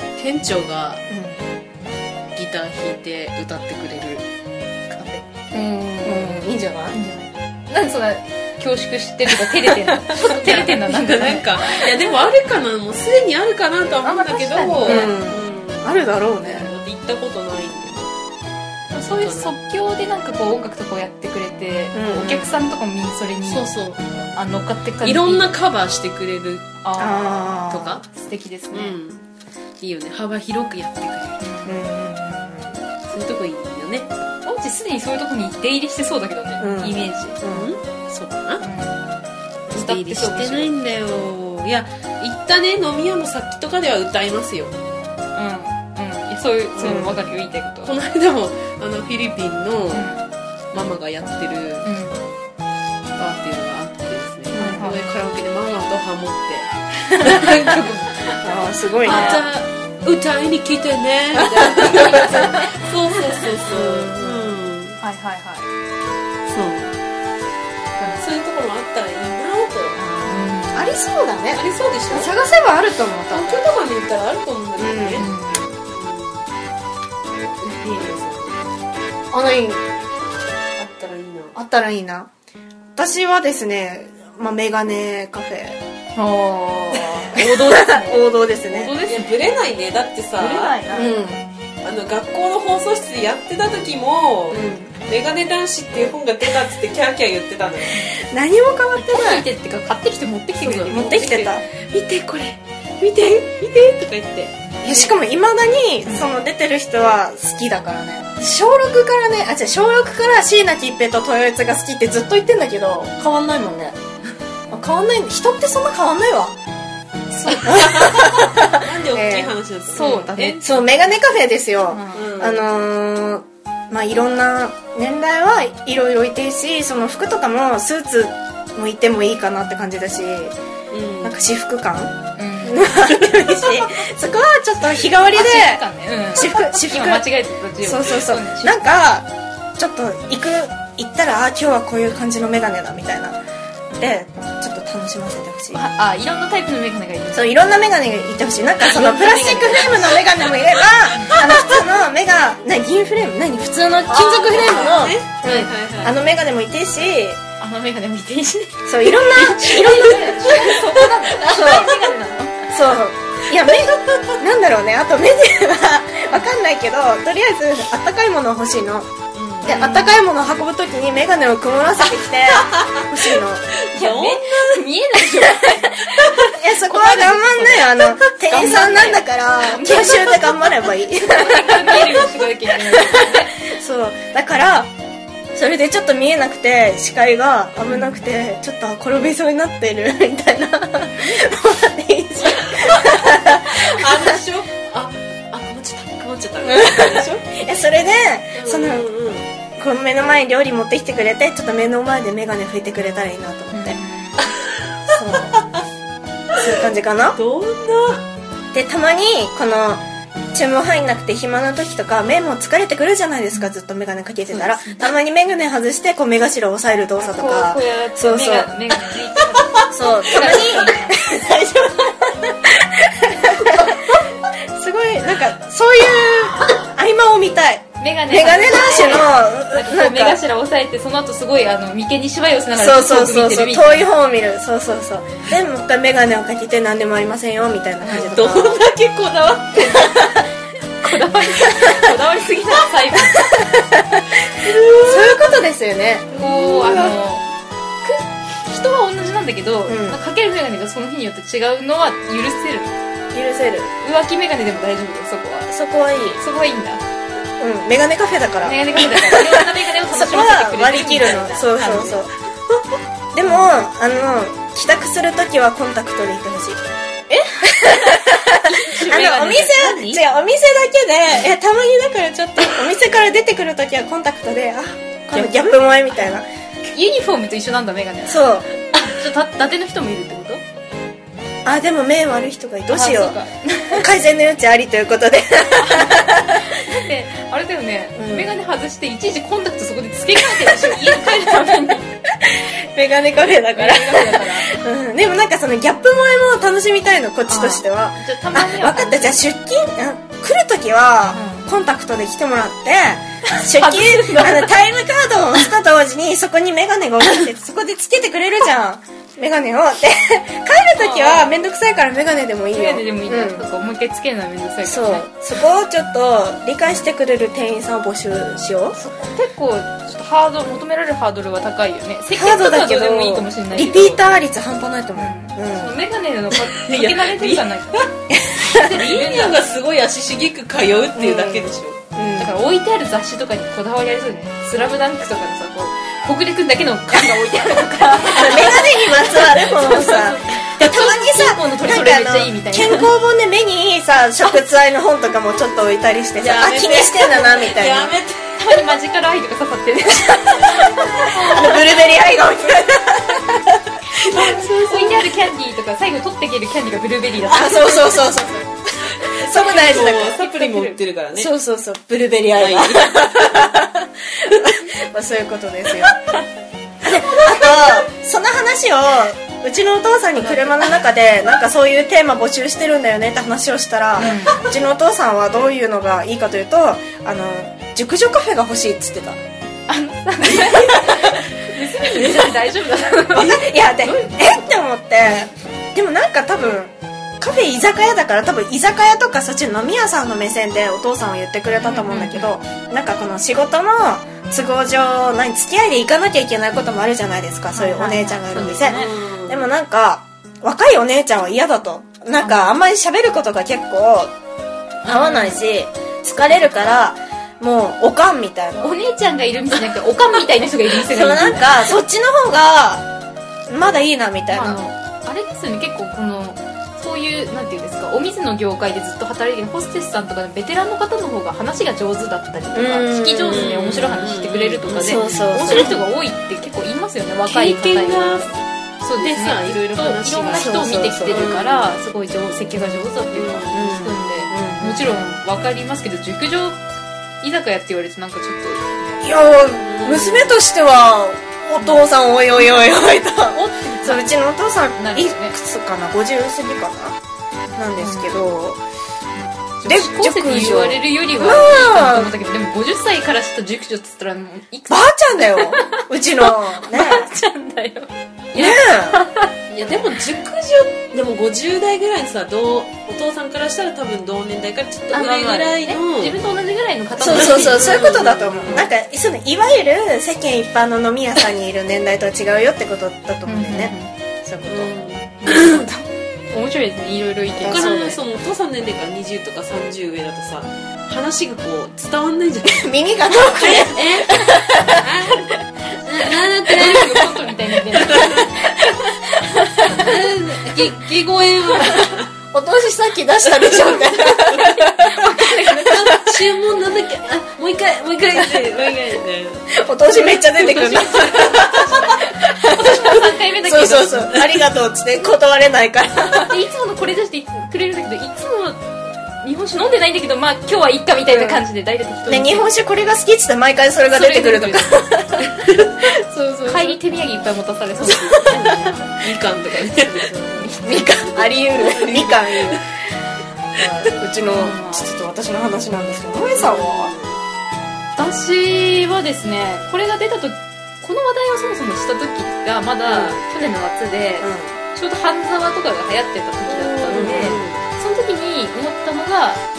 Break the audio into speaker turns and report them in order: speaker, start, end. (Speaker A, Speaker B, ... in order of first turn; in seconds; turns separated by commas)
Speaker A: 0.2-1.0, Speaker B: 1.1-1.6, Speaker A: 2.3-4.2, Speaker A: 4.9-5.2, Speaker C: 5.5-11.8, Speaker B: 6.0-7.0, Speaker A: 10.2-18.1, Speaker C: 14.0-15.1, Speaker B: 14.8-16.7, Speaker C: 18.9-23.7, Speaker A: 19.0-19.5, Speaker B: 21.9-22.7, Speaker A: 23.4-24.3, Speaker C: 24.3-25.5, Speaker A: 25.0-26.7, Speaker C: 26.8-29.0, Speaker B: 27.0-28.0, Speaker A: 27.7-28.0, Speaker A: 28.7-29.2, Speaker A: 29.8-31.4, Speaker C: 31.4-31.8, Speaker B: 31.6-32.8, Speaker A: 33.0-34.1, Speaker C: 34.4-37.4, Speaker B: 36.6-37.7, Speaker A: 37.5-38.6, Speaker C: 38.6-39.1, Speaker A: 39.7-44.8, Speaker C: 39.7-40.7, Speaker C: 45.3-47.9, Speaker B: 46.8-47.2, Speaker A: 47.8-50.1, Speaker C: 49.9-50.2, Speaker A: 50.7-51.9, Speaker C: 51.8-52.2, Speaker A: 53.2-58.2, Speaker B: 54.5-54.9, Speaker C: 54.5-55.0, Speaker B: 58.4-59.4, Speaker A: 59.0-65.0, Speaker C: 59.0-59.5, Speaker B: 61.4-62.7, Speaker C: 61.5-62.6, Speaker B: 63.6-64.5, Speaker C: 65.0-65.7, Speaker A: 66.5-66.9, Speaker C: 68.0-68.2, Speaker A: 68.1-70.0, Speaker C: 70.0-70.9, Speaker B: 70.1-73.6, Speaker A: 71.5-72.3, Speaker A: 73.3-75.2, Speaker B: 74.8-75.2, Speaker C: 75.2-75.7, Speaker A: 75.9-76.5, Speaker A: 77.6-78.6, Speaker B: 79.3-79.8, Speaker A: 80.8-81.5, Speaker B: 81.5-82.3, Speaker B: 83.0-85.8, Speaker C: 86.2-89.3, Speaker B: 86.9-88.9, Speaker A: 89.0-90.8, Speaker C: 90.4-91.0, Speaker B: 90.5-91.4, Speaker A: 91.8-98.0, Speaker B: 94.5-94.9, Speaker B: 97.9-99.5, Speaker C: 99.0-101.6, Speaker A: 100.6-101.2, Speaker B: 100.8-101.6, Speaker A: 101.8-105.1, Speaker B: 104.8-114.0, Speaker B: 114.7-116.5, Speaker C: 117.4-117.8, Speaker A: 117.5-120.7, Speaker B: 117.6-130.5, Speaker C: 119.9-120.8, Speaker C: 121.9-122.3, Speaker A: 122.1-122.6, Speaker A: 130.9-131.3, Speaker B: 131.2-137.2, Speaker C: 132.4-132.8, Speaker C: 135.3-138.8, Speaker B: 137.8-143.4, Speaker B: 143.9-145.8, Speaker C: 145.7-147.6, Speaker B: 147.3-157.4, Speaker C: 148.8-150.2, Speaker C: 151.1-151.4, Speaker A: 154.1-156.2, Speaker C: 157.6-162.7, Speaker B: 158.8-160.8, Speaker A: 159.8-160.8, Speaker B: 161.4-161.9, Speaker A: 161.5-161.9, Speaker B: 162.7-169.1, Speaker A: 163.5-164.3, Speaker A: 169.3-170.0, Speaker B: 169.6-173.8, Speaker C: 169.7-170.2, Speaker A: 172.5-173.1, Speaker A: 173.9-174.7, Speaker C: 173.9-176.3, Speaker B: 176.5-182.3, Speaker C: 176.8-177.9, Speaker C: 178.4-180.3, Speaker C: 181.2-183.6, Speaker B: 183.0-184.9, Speaker B: 185.5-194.4, Speaker A: 192.4-197.7, Speaker B: 196.6-199.0, Speaker A: 198.5-199.4, Speaker B: 199.8-204.0, Speaker C: 203.7-204.4, Speaker B: 205.1-205.5, Speaker B: 206.6-207.4, Speaker A: 207.3-208.2, Speaker B: 208.7-218.7, Speaker C: 217.2-221.2, Speaker B: 219.9-230.4, Speaker C: 228.0-234.1, Speaker B: 232.8-238.8, Speaker A: 238.1-240.4, Speaker C: 241.0-243.7, Speaker B: 243.8-244.2, Speaker A: 244.6-245.4, Speaker B: 245.0-247.1, Speaker A: 246.3-247.1, Speaker C: 246.4-247.4, Speaker C: 248.0-252.9, Speaker B: 249.9-250.2, Speaker B: 253.3-253.9, Speaker C: 254.0-255.7, Speaker B: 255.7-256.4, Speaker C: 256.4-257.0, Speaker B: 257.6-262.3, Speaker C: 258.6-262.2, Speaker B: 263.3-266.8, Speaker C: 267.3-270.2, Speaker B: 267.8-276.4, Speaker C: 275.3-276.4, Speaker C: 276.9-280.6, Speaker B: 278.3-278.7, Speaker B: 281.6-283.4, Speaker C: 282.9-284.1, Speaker B: 283.9-286.6, Speaker C: 285.8-292.1, Speaker B: 288.1-288.5, Speaker B: 292.3-313.6, Speaker C: 293.7-294.7, Speaker C: 297.5-299.4, Speaker C: 301.3-301.7, Speaker C: 303.6-304.8, Speaker C: 311.0-311.5, Speaker C: 312.7-315.3, Speaker B: 314.8-319.0, Speaker C: 318.9-324.2, Speaker B: 322.3-325.9, Speaker C: 325.1-328.1, Speaker A: 326.8-328.1, Speaker B: 328.3-328.8, Speaker C: 328.6-329.6, Speaker A: 329.0-332.0, Speaker B: 331.1-332.6, Speaker C: 332.4-343.1, Speaker B: 338.3-348.1, Speaker A: 346.4-348.6, Speaker C: 348.6-351.6, Speaker B: 350.7-353.8, Speaker A: 354.2-355.3, Speaker C: 354.5-358.3, Speaker B: 357.5-360.4, Speaker A: 359.4-361.5, Speaker C: 359.5-361.0, Speaker B: 361.3-366.1, Speaker A: 362.5-363.7, Speaker B: 367.0-379.4, Speaker A: 367.4-368.0, Speaker C: 374.2-374.6, Speaker C: 379.9-383.6, Speaker B: 380.5-381.4, Speaker B: 382.1-382.5, Speaker B: 383.3-404.3, Speaker C: 391.8-392.5, Speaker C: 397.7-399.1, Speaker A: 398.6-399.7, Speaker C: 402.4-402.8, Speaker C: 405.0-405.6, Speaker B: 405.1-408.9, Speaker C: 406.5-406.9, Speaker C: 408.8-411.9, Speaker B: 411.1-413.1, Speaker B: 413.7-414.8, Speaker C: 414.5-436.8, Speaker B: 422.7-423.9, Speaker A: 423.4-425.9, Speaker B: 425.0-426.0, Speaker A: 427.5-428.6, Speaker A: 429.1-431.9, Speaker B: 430.5-431.7, Speaker A: 433.3-433.8, Speaker B: 433.7-435.1, Speaker C: 437.4-439.2, Speaker B: 439.2-447.2, Speaker A: 439.8-440.6, Speaker C: 442.6-442.9, Speaker C: 443.5-444.3, Speaker C: 445.0-445.5, Speaker B: 447.8-448.8, Speaker C: 448.0-448.5, Speaker C: 449.4-459.6, Speaker B: 449.8-452.3, Speaker B: 454.9-457.4, Speaker B: 458.5-459.2, Speaker A: 459.7-466.4, Speaker C: 465.1-468.0, Speaker B: 467.2-474.9, Speaker A: 467.3-468.8, Speaker C: 473.5-474.1, Speaker A: 474.7-475.8, Speaker C: 475.4-478.2, Speaker B: 477.6-478.1, Speaker A: 477.7-482.9, Speaker B: 482.7-485.0, Speaker A: 483.6-485.4, Speaker A: 486.0-488.5, Speaker C: 486.7-490.0, Speaker B: 486.8-487.1, Speaker A: 489.9-492.2, Speaker B: 491.8-496.1, Speaker A: 493.6-494.7, Speaker C: 495.0-496.0, Speaker A: 495.8-499.7, Speaker B: 499.7-506.5, Speaker C: 500.5-504.4, Speaker C: 506.4-508.8, Speaker C: 509.4-512.7, Speaker B: 511.3-511.6, Speaker B: 512.2-515.5, Speaker C: 514.1-515.1, Speaker A: 515.5-517.0, Speaker C: 516.7-519.0, Speaker A: 518.3-520.7, Speaker C: 520.5-521.1, Speaker B: 520.6-522.8, Speaker A: 521.4-522.8, Speaker B: 523.8-527.1, Speaker C: 524.4-525.1, Speaker A: 526.5-527.4, Speaker C: 528.2-539.6, Speaker B: 533.1-533.4, Speaker B: 534.4-534.8, Speaker A: 536.7-537.8, Speaker B: 537.1-537.6